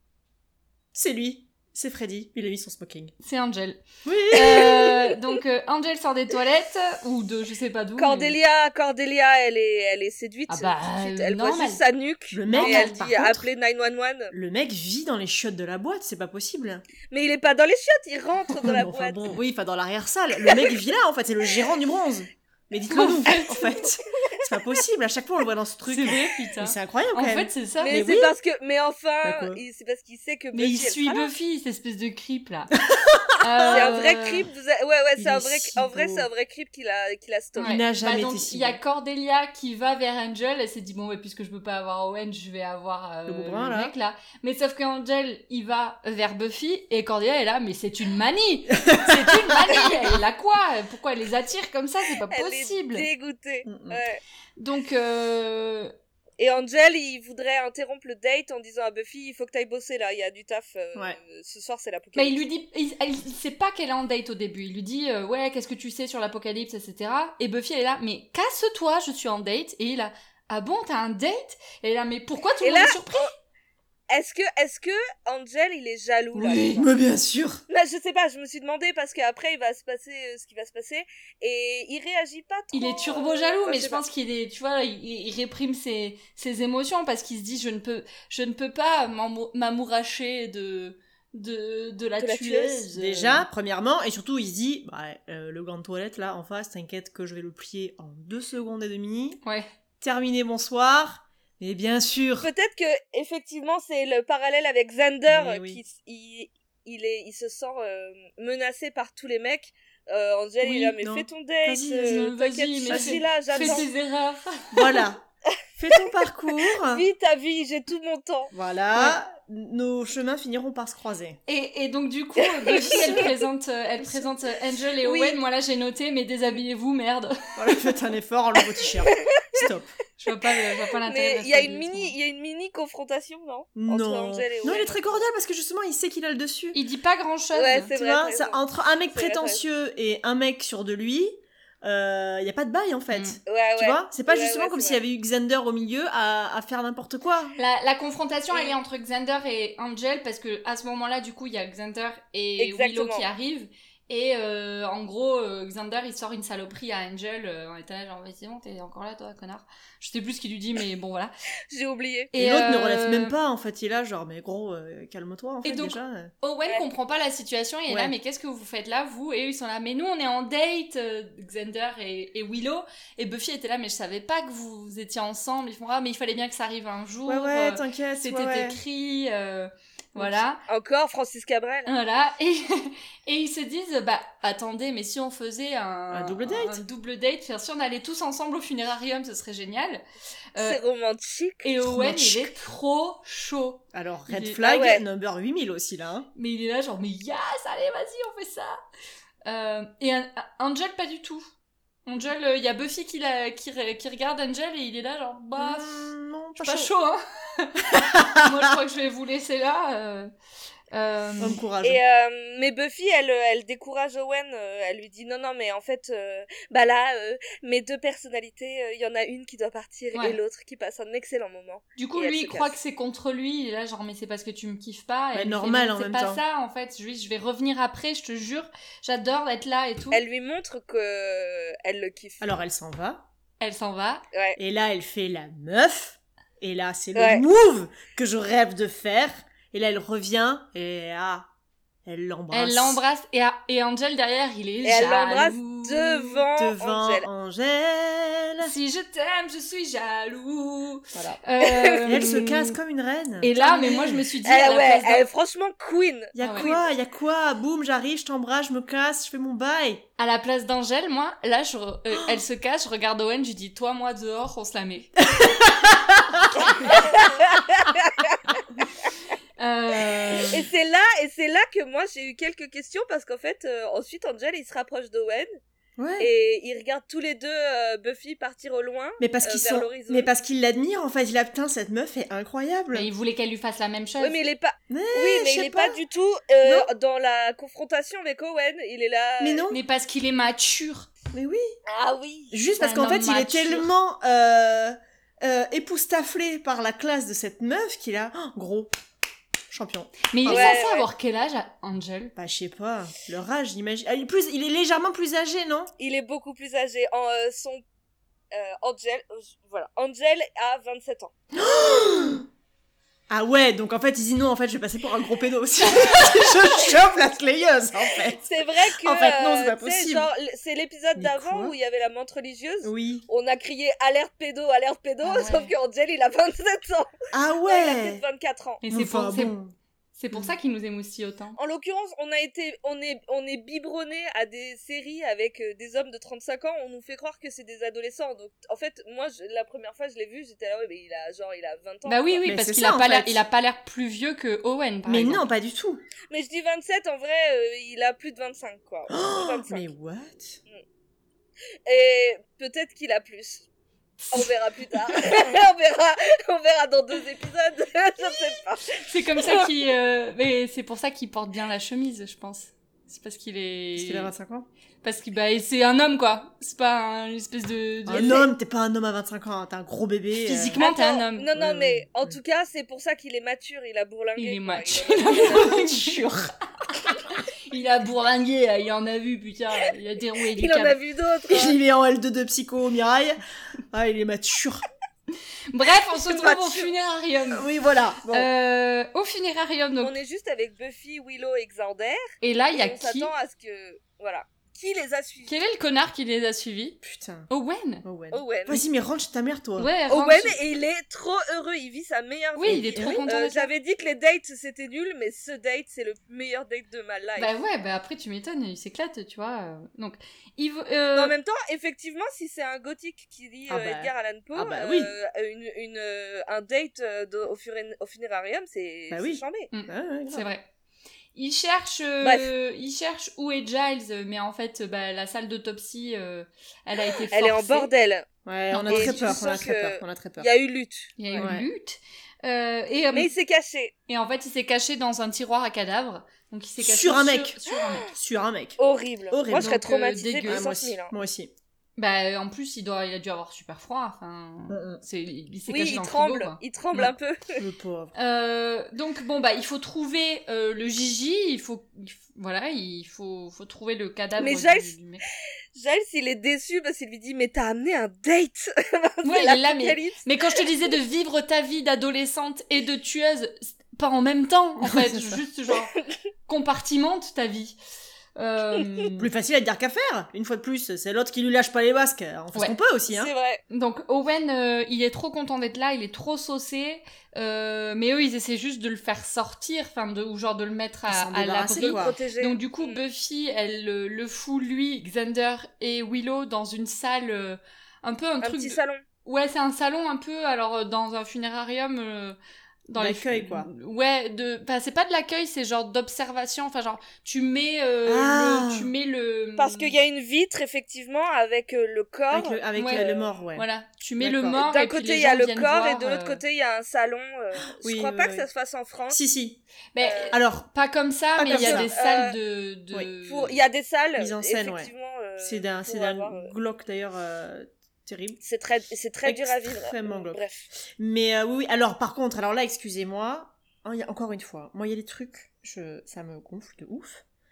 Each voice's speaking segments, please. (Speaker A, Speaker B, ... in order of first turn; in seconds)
Speaker A: 0.9-3.1, 4.0-4.9, 12.3-13.5, 14.3-16.9, 18.6-28.4, 29.2-29.6, 32.9-33.9, 35.2-36.3, 37.6-38.8, 43.3-43.9, 48.9-49.7, 53.7-54.0, 76.3-77.6, 92.9-99.4, 100.0-102.5, 105.3-105.8, 110.6-112.3, 112.9-113.9, 114.7-115.2, 115.8-117.0, 118.5-121.4, 122.8-123.3, 127.6-129.9, 133.8-136.8, 137.9-147.6, 162.3-166.3, 167.9-168.2, 177.2-178.8, 180.2-180.4, 186.1-186.8, 191.8-192.5, 193.9-196.3, 205.6-206.9, 207.9-208.7, 211.4-212.0, 225.3-226.4, 232.4-233.2, 234.6-241.5, 242.1-243.0, 246.5-248.7, 251.1-251.4, 252.0-254.2, 256.4-260.0, 265.2-267.0, 270.0-270.6, 276.0-276.3, 279.2-283.1, 284.9-286.0, 286.6-286.9, 289.4-289.8, 291.3-291.8, 292.5-298.9, 299.7-300.8, 302.4-305.9, 311.5-312.4, 313.3-320.3, 321.2-321.7, 322.8-323.3, 327.3-328.2, 328.9-329.7, 342.4-343.4, 345.1-346.0, 349.1-350.6, 363.9-364.7, 368.1-370.8, 371.5-372.4, 375.3-376.5, 381.5-383.4, 383.9-384.9, 387.5-388.5, 397.0-397.5, 398.0-399.9, 402.6-403.2, 413.7-415.1, 419.1-420.5, 428.5-430.5, 431.3-431.7, 436.8-438.8, 439.3-439.8, 440.4-441.5, 444.7-445.0, 447.0-448.1, 464.8-465.4, 469.2-473.3, 481.1-482.1, 493.0-493.7, 498.1-498.9, 502.3-503.7, 504.2-504.6, 507.7-508.5, 509.1-509.6, 510.3-510.7, 511.4-511.9, 514.2-518.4, 519.2-527.2
Speaker B: 3.2-8.4, 10.5-11.8, 12.5-13.1, 22.9-23.6, 25.9-27.9, 30.5-32.7, 33.4-34.5, 37.6-53.1, 54.6-55.9, 62.2-73.3, 82.7-93.5, 99.4-99.7, 112.0-115.0, 121.5-127.3, 130.2-132.2, 136.7-137.9, 143.1-143.4, 147.6-161.3, 162.3-163.3, 165.6-180.6, 181.9-190.0, 191.6-194.6, 196.4-198.8, 199.4-201.5, 202.1-205.9, 206.6-210.3, 210.9-211.6, 222.0-230.2, 233.6-234.2, 242.5-246.4, 248.6-252.8, 253.4-255.3, 256.4-256.7, 260.2-265.1, 269.6-270.5, 282.9-284.4, 289.7-291.1, 292.8-293.9, 300.3-302.3, 325.2-325.7, 328.8-329.6, 330.2-331.6, 342.1-345.4, 354.2-354.5, 358.9-364.3, 365.0-368.5, 370.4-371.5, 374.4-376.3, 377.1-381.0, 385.7-387.7, 388.3-390.1, 392.4-393.3, 395.5-397.0, 397.5-398.1, 399.8-400.6, 402.6-403.7, 407.4-411.3, 419.7-420.7, 421.4-427.9, 428.7-429.4, 431.2-433.3, 434.1-438.1, 439.5-440.7, 442.0-447.1, 448.1-455.2, 459.2-465.9, 466.5-467.8, 468.4-469.3, 473.7-499.9, 502.8-506.4, 509.9-513.6
Speaker C: 8.0-14.3, 17.1-19.4, 27.8-31.3, 33.7-37.8, 52.3-54.2, 56.4-62.5, 72.6-73.3, 74.1-76.9, 77.7-84.0, 92.2-92.9, 102.4-113.9, 116.8-118.5, 122.5-123.3, 125.0-125.4, 131.1-135.2, 137.6-138.6, 139.1-139.6, 143.5-145.0, 148.5-148.8, 152.6-153.3, 161.7-162.3, 180.7-181.9, 190.6-191.7, 194.6-195.0, 211.8-222.8, 230.1-232.5, 234.3-234.6, 237.2-237.4, 244.8-247.2, 251.6-252.4, 254.4-256.9, 266.7-268.9, 270.5-275.5, 276.2-280.3, 284.2-289.7, 291.9-292.6, 300.5-301.1, 306.0-307.8, 308.5-311.3, 318.4-327.1, 327.7-328.8, 331.6-342.5, 346.3-349.9, 351.9-353.6, 354.3-359.7, 370.8-375.8, 380.6-381.8, 386.1-386.9, 390.0-395.6, 398.3-398.9, 400.1-407.5, 411.1-419.7, 422.2-422.5, 427.3-428.3, 428.9-431.5, 433.1-433.9, 438.8-441.1, 445.7-447.6, 454.4-455.0, 455.8-460.6, 473.1-473.6, 481.8-483.0, 488.4-489.0, 499.6-503.3, 504.6-509.2, 510.0-510.4, 511.5-512.4, 513.3-516.5, 518.4-520.7